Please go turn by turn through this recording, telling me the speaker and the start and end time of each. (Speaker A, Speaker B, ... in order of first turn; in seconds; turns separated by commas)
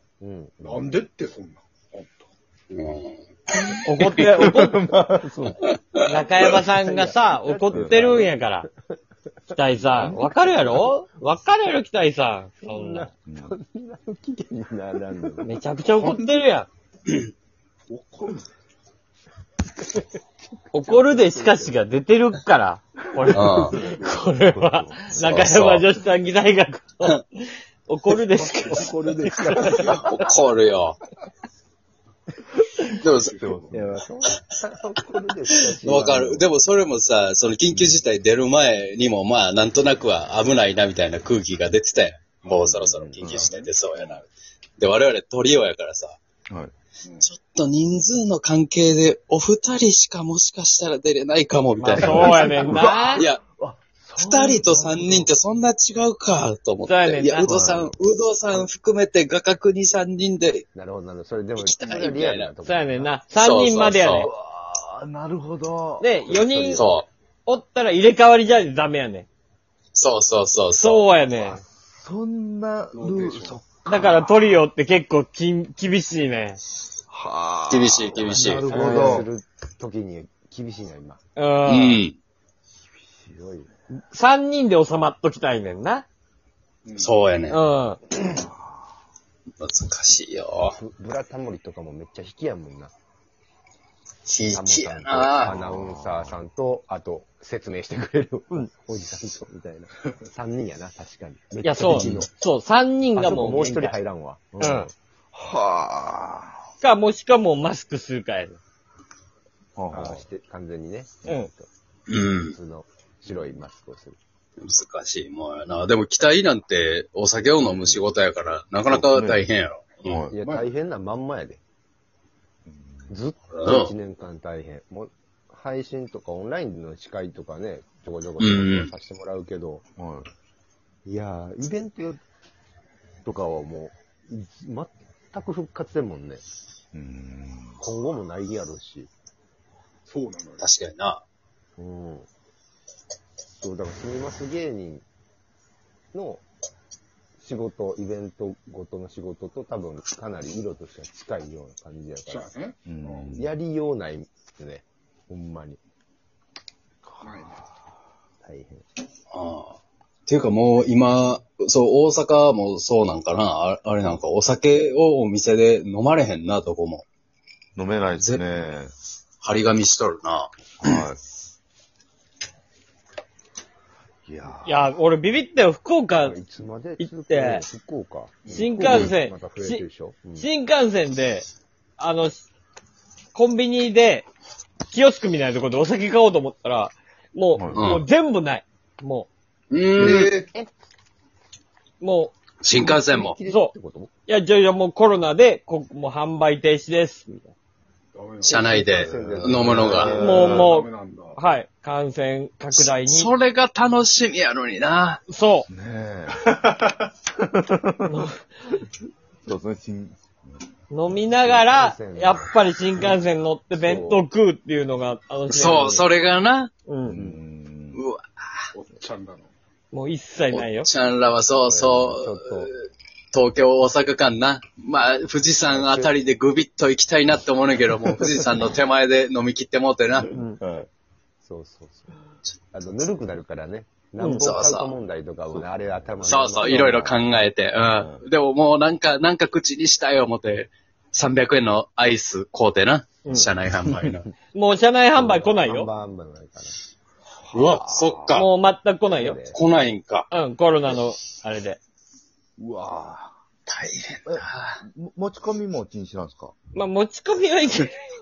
Speaker A: 0.2-1.0, Speaker B: 0.7-2.3, Speaker C: 2.7-3.1, Speaker D: 3.8-4.8, Speaker E: 4.2-5.5, Speaker A: 4.9-5.5, Speaker D: 6.0-8.7, Speaker A: 6.4-8.4, Speaker E: 7.7-8.0, Speaker D: 9.5-13.1, Speaker A: 9.9-10.9, Speaker A: 12.6-15.6, Speaker E: 13.3-13.5, Speaker D: 15.4-16.7, Speaker B: 17.9-18.5, Speaker D: 20.7-29.9, Speaker A: 20.7-21.7, Speaker C: 23.3-23.8, Speaker E: 23.7-25.6, Speaker C: 25.2-25.9, Speaker A: 28.4-30.2, Speaker C: 29.7-31.0, Speaker C: 33.0-33.4, Speaker B: 33.1-33.8, Speaker E: 33.3-34.0, Speaker A: 33.7-36.5, Speaker C: 35.7-44.3, Speaker E: 37.7-38.0, Speaker E: 42.7-43.5, Speaker C: 44.8-46.2, Speaker C: 47.2-52.6, Speaker D: 51.8-53.3, Speaker E: 51.9-55.3, Speaker C: 53.1-53.4, Speaker C: 54.2-60.7, Speaker D: 56.9-57.5, Speaker E: 57.4-58.0, Speaker A: 60.8-63.2, Speaker C: 61.6-62.5, Speaker D: 62.6-64.3, Speaker C: 63.4-64.3, Speaker E: 64.1-66.1, Speaker D: 66.0-66.9, Speaker A: 66.2-67.0, Speaker C: 66.7-67.1, Speaker D: 67.5-69.3, Speaker C: 70.0-71.1, Speaker D: 70.7-71.6, Speaker E: 72.0-74.3, Speaker B: 72.9-73.6, Speaker D: 73.9-76.6, Speaker E: 77.1-79.3, Speaker C: 77.7-78.8, Speaker A: 78.7-81.2, Speaker D: 81.4-82.0, Speaker C: 81.7-82.2, Speaker A: 83.4-83.7, Speaker D: 83.9-86.1, Speaker B: 86.9-87.2, Speaker C: 87.0-87.6, Speaker D: 87.5-88.0, Speaker C: 89.6-90.8, Speaker A: 90.7-92.9, Speaker C: 94.3-95.5, Speaker A: 94.5-102.3, Speaker E: 95.5-96.4, Speaker D: 101.6-104.0, Speaker C: 101.8-102.3, Speaker A: 103.2-104.9, Speaker D: 104.6-104.9, Speaker E: 105.3-106.6, Speaker D: 106.8-108.6, Speaker E: 109.8-110.2, Speaker A: 109.9-111.7, Speaker D: 111.2-111.5, Speaker C: 112.1-112.5, Speaker A: 112.4-114.2, Speaker C: 114.6-120.2, Speaker A: 117.6-118.0, Speaker E: 118.9-119.5, Speaker E: 120.0-120.4, Speaker A: 120.3-121.6, Speaker B: 120.4-120.7, Speaker E: 122.7-123.2, Speaker A: 123.1-129.8, Speaker C: 123.5-123.9, Speaker C: 128.4-128.9, Speaker E: 130.0-130.3, Speaker A: 131.1-132.2, Speaker A: 133.2-136.4, Speaker E: 136.9-137.8, Speaker A: 137.8-139.1, Speaker B: 140.1-140.7, Speaker C: 140.6-141.2, Speaker A: 141.8-142.3, Speaker A: 143.6-145.1, Speaker A: 146.1-146.4, Speaker A: 147.4-152.5, Speaker B: 152.3-153.3, Speaker E: 152.8-153.5, Speaker A: 153.3-155.8, Speaker E: 157.1-157.7, Speaker B: 157.2-157.6, Speaker A: 158.4-158.8, Speaker C: 159.3-167.1, Speaker E: 167.8-168.9, Speaker C: 168.1-168.5, Speaker C: 169.4-170.5, Speaker E: 170.8-171.2, Speaker E: 174.3-174.9, Speaker D: 174.7-176.4, Speaker A: 176.2-180.5, Speaker D: 177.0-177.7, Speaker D: 178.5-179.8, Speaker D: 180.4-181.5, Speaker D: 182.0-182.5, Speaker D: 183.3-184.3, Speaker D: 184.9-189.3, Speaker E: 187.6-187.9, Speaker C: 187.8-188.1, Speaker C: 189.7-190.4, Speaker B: 190.0-190.5, Speaker D: 192.0-192.3, Speaker C: 192.6-193.4, Speaker A: 192.7-194.1, Speaker D: 193.5-193.7, Speaker D: 194.3-197.4, Speaker B: 198.2-199.1, Speaker C: 198.4-200.2, Speaker A: 198.5-200.3, Speaker E: 199.1-200.8, Speaker D: 200.2-203.3, Speaker B: 200.4-201.4, Speaker C: 202.7-205.2, Speaker D: 205.3-205.7, Speaker E: 205.7-206.5, Speaker B: 206.5-206.9, Speaker E: 207.5-207.9, Speaker D: 208.1-208.4, Speaker E: 209.4-210.7, Speaker D: 210.9-216.1, Speaker A: 211.6-212.6, Speaker A: 213.7-214.3, Speaker C: 215.5-216.7, Speaker D: 216.9-217.2, Speaker E: 217.1-218.0, Speaker C: 217.9-218.2, Speaker B: 218.7-219.5, Speaker D: 219.9-220.9, Speaker C: 220.5-222.7, Speaker A: 221.7-222.7, Speaker C: 223.3-230.3, Speaker A: 225.7-226.3, Speaker D: 230.3-230.6, Speaker E: 230.6-230.9, Speaker A: 231.4-232.2, Speaker A: 232.7-237.2, Speaker C: 234.3-234.9, Speaker E: 235.5-236.3, Speaker C: 236.2-244.3, Speaker E: 237.9-238.3, Speaker D: 244.5-245.9, Speaker A: 245.2-246.8, Speaker E: 247.5-248.5, Speaker C: 247.5-248.5, Speaker D: 248.3-249.4, Speaker A: 249.1-249.6, Speaker C: 249.5-250.3, Speaker D: 250.3-251.8, Speaker E: 252.6-253.3, Speaker C: 253.7-254.8, Speaker E: 254.3-256.5, Speaker D: 256.7-257.9